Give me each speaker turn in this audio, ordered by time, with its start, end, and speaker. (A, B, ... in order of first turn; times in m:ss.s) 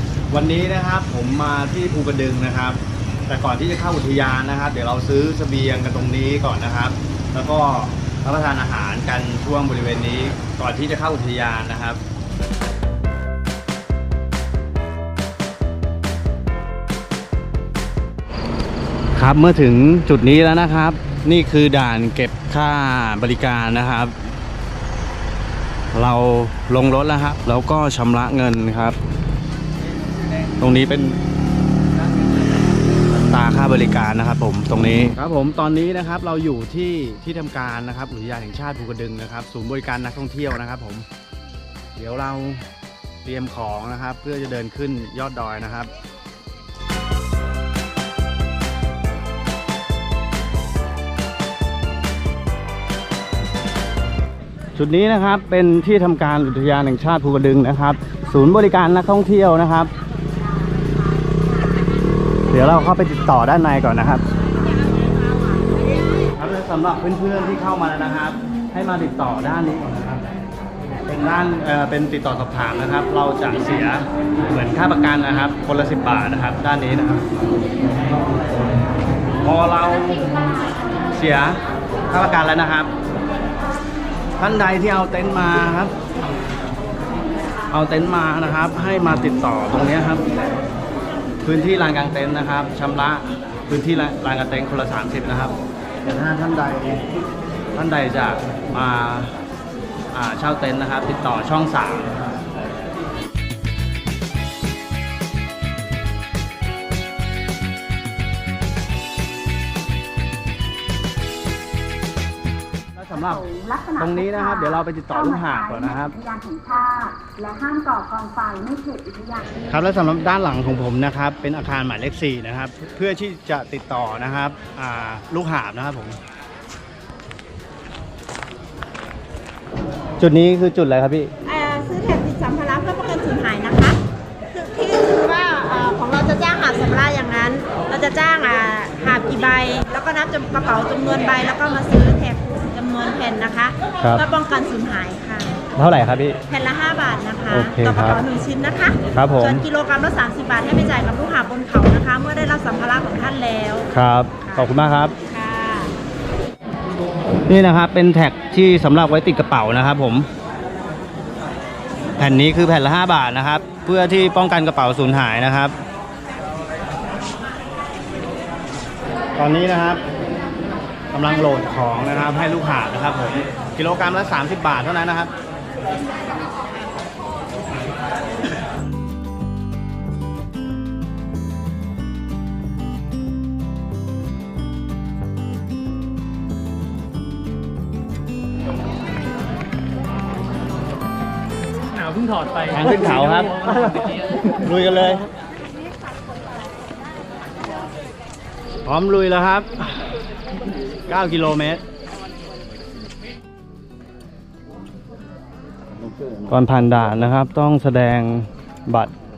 0:00.3-0:12.0 A
0:19.2-0:24.3 A
0:25.9-0:29.0 A
0:30.6-0:31.2 A
0:33.1-0:41.1 A
0:42.0-0:42.6 A
0:43.2-0:45.9 A
0:54.8-0:59.9 A
1:02.5-1:04.2 A
1:06.3-1:10.2 A
1:11.0-1:17.3 A
1:19.4-1:20.3 A
1:21.1-1:22.9 A
1:24.4-1:25.9 A
1:27.7-1:30.2 A
1:31.4-1:37.0 A
1:37.7-1:39.3 A
1:40.1-1:42.2 A
1:52.9-1:56.2 A
1:53.5-1:53.9 B
1:56.2-1:59.6 B
1:59.7-2:06.2 A
2:10.2-2:11.3 A
2:11.4-2:14.0 C
2:14.5-2:25.6 C
2:25.8-2:26.4 A
2:26.5-2:33.9 C
2:27.5-2:28.2 A
2:29.1-2:29.6 A
2:33.9-2:35.1 A
2:35.2-2:35.9 C
2:37.5-2:40.3 A
2:42.2-2:45.8 A
2:49.4-2:50.0 A
2:51.1-2:55.3 A
3:11.9-3:14.6 D
3:12.7-3:13.6 A
3:14.5-3:15.2 A
3:18.8-3:20.1 A
3:21.1-3:21.8 A
3:26.5-3:29.1 A